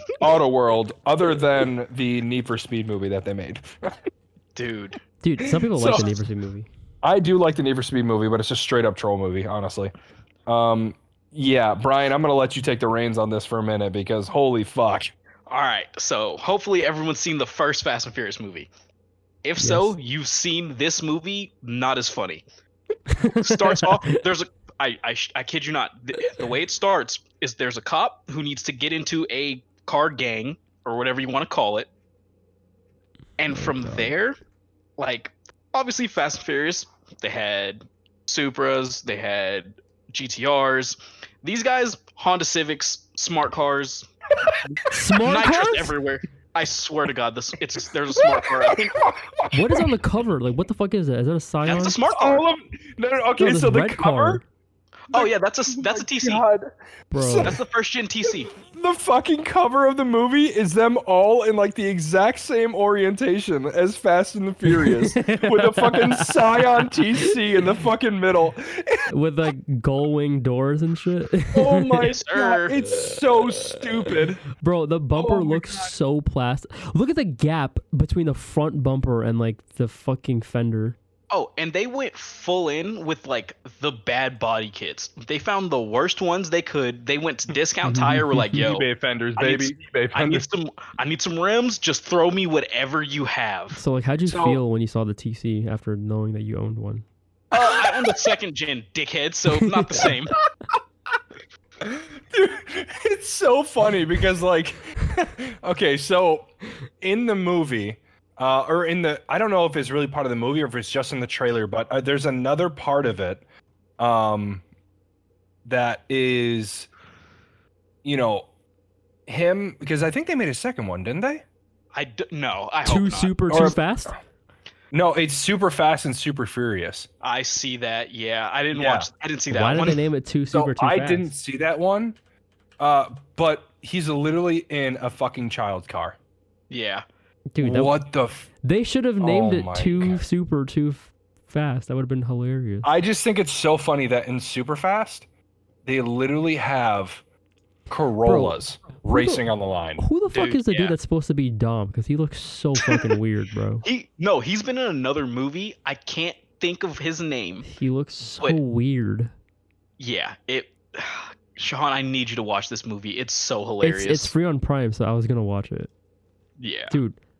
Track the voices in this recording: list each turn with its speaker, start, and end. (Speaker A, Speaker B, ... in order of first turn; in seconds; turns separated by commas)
Speaker A: 0.2-4.0, Speaker B: 4.5-5.0, Speaker C: 5.2-6.7, Speaker A: 5.4-6.1, Speaker A: 7.0-9.9, Speaker A: 10.5-15.1, Speaker B: 15.5-18.7, Speaker B: 19.4-22.4, Speaker C: 19.6-19.9, Speaker C: 23.1-24.1, Speaker B: 23.2-31.9, Speaker B: 33.4-34.4, Speaker C: 33.5-34.1, Speaker B: 35.0-44.1, Speaker A: 44.5-44.9, Speaker C: 44.9-46.0, Speaker B: 45.2-49.0, Speaker A: 48.1-49.9, Speaker C: 49.5-52.0, Speaker B: 51.6-52.5, Speaker A: 51.7-54.4, Speaker C: 53.4-54.4, Speaker B: 55.1-56.4, Speaker A: 55.1-57.6, Speaker C: 57.1-57.5, Speaker B: 57.4-58.5, Speaker A: 58.6-69.1, Speaker C: 64.6-67.3, Speaker C: 69.1-72.1, Speaker A: 71.5-74.4, Speaker B: 72.0-72.8, Speaker C: 72.9-81.0, Speaker A: 75.1-75.9, Speaker B: 81.3-93.8, Speaker C: 87.8-88.6, Speaker A: 88.5-90.4, Speaker C: 93.7-97.0, Speaker A: 94.3-94.6, Speaker B: 97.5-100.4, Speaker A: 97.5-98.0, Speaker C: 99.7-100.1, Speaker A: 101.8-106.5, Speaker A: 107.0-113.4, Speaker A: 114.0-114.6, Speaker A: 115.7-116.9, Speaker A: 118.0-118.5, Speaker A: 119.3-121.4, Speaker B: 121.9-123.4, Speaker C: 122.8-124.2, Speaker A: 123.5-123.8, Speaker A: 124.9-127.1, Speaker B: 127.2-130.0, Speaker A: 128.7-129.1, Speaker C: 129.5-131.3, Speaker A: 130.5-132.2, Speaker A: 132.8-136.2, Speaker B: 136.7-137.0, Speaker C: 137.5-138.0, Speaker A: 137.6-138.5, Speaker C: 138.6-142.9, Speaker A: 139.2-140.2, Speaker A: 142.8-145.2, Speaker A: 145.8-147.2, Speaker A: 147.9-150.0, Speaker C: 148.2-149.4, Speaker C: 150.0-153.8, Speaker B: 150.3-150.9, Speaker B: 152.8-153.2, Speaker B: 153.8-157.7, Speaker C: 157.6-159.3, Speaker B: 160.0-164.3, Speaker C: 163.8-165.9, Speaker B: 166.6-167.0, Speaker C: 166.9-167.2